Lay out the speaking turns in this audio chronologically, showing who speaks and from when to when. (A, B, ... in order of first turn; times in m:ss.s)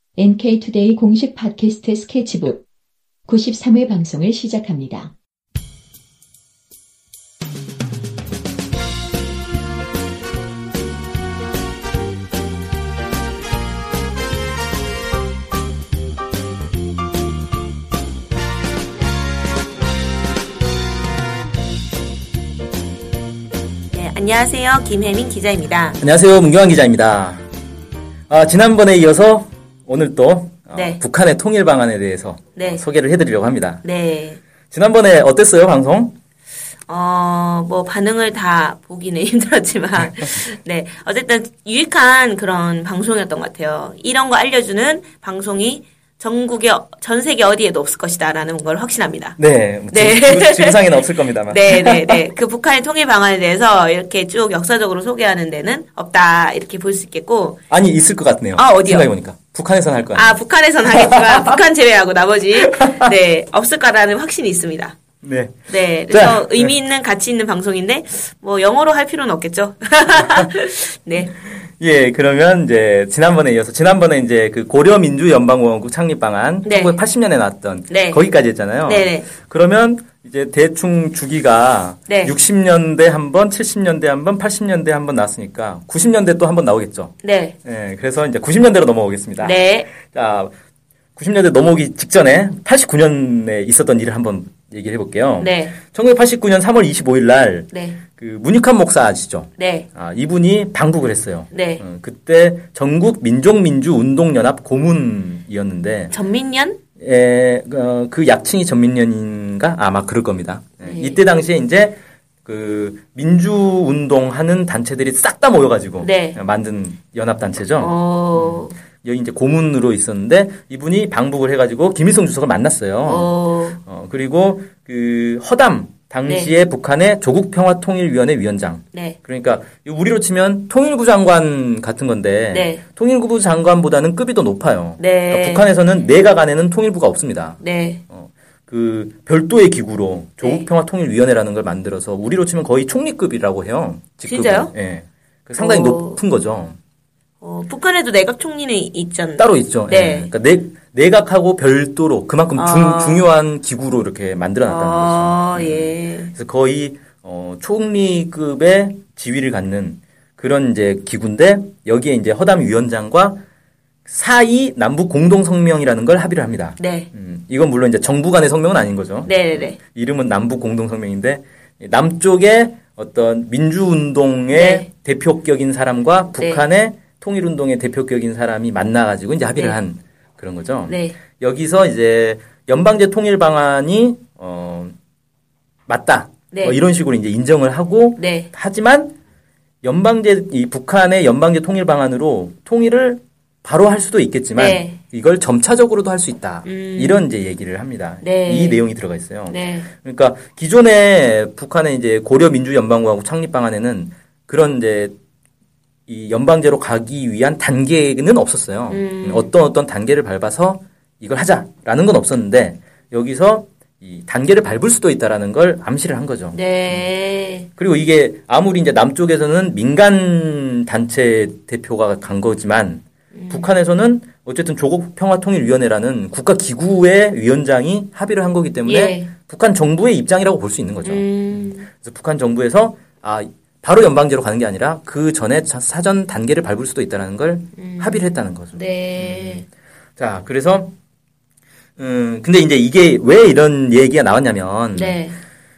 0:00.2-0:02.6 A
0:03.3-0:05.1 A
0:23.9-0:26.0 B
0:26.0-0:27.4 C
0:28.3-0:33.8 C
0:30.7-0:31.0 B
0:32.6-0:32.8 B
0:33.8-0:34.4 B
0:34.7-0:36.2 C
0:36.9-0:49.4 B
0:49.4-0:52.2 C
0:49.9-0:57.6 B
0:57.7-1:01.6 C
0:58.6-0:59.1 B
1:00.2-1:05.0 B
1:02.6-1:03.1 C
1:05.2-1:06.7 C
1:05.7-1:11.3 B
1:10.2-1:10.5 C
1:11.6-1:30.5 C
1:16.6-1:17.0 B
1:17.9-1:18.2 B
1:18.8-1:19.3 B
1:22.1-1:22.3 B
1:27.2-1:27.5 B
1:29.4-1:29.9 B
1:31.2-1:46.1 C
1:35.4-1:35.8 B
1:37.7-1:38.0 B
1:39.6-1:39.9 B
1:41.5-1:41.8 B
1:46.1-1:46.8 B
1:47.0-2:26.8 C
1:50.8-1:51.2 B
1:56.0-1:56.4 B
1:57.8-1:58.8 B
2:03.0-2:03.8 B
2:12.5-2:12.8 B
2:15.0-2:15.7 B
2:17.6-2:18.0 B
2:24.2-2:24.7 B
2:25.6-2:26.2 B
2:27.4-2:30.3 B
2:29.4-2:43.4 C
2:32.6-2:33.2 B
2:34.7-2:36.3 B
2:44.1-3:04.9 C
2:46.8-2:47.1 B
2:49.3-2:49.8 B
2:54.5-2:54.9 B
2:56.4-2:56.6 B
3:00.9-3:01.2 B
3:05.9-3:09.2 C
3:06.5-3:06.8 B
3:08.2-3:08.5 B
3:09.8-3:25.2 C
3:14.6-3:15.0 B
3:16.6-3:17.2 B
3:18.2-3:18.8 B
3:19.5-3:19.9 B
3:26.1-3:37.0 C
3:28.9-3:29.5 B
3:36.5-3:37.7 B
3:37.8-3:59.6 C
3:43.3-3:43.7 B
3:48.9-3:49.3 B
3:51.0-3:51.9 B
3:57.8-3:58.2 B
3:58.8-3:59.6 B
4:00.2-4:01.0 C
4:02.0-4:05.2 C
4:05.0-4:05.4 B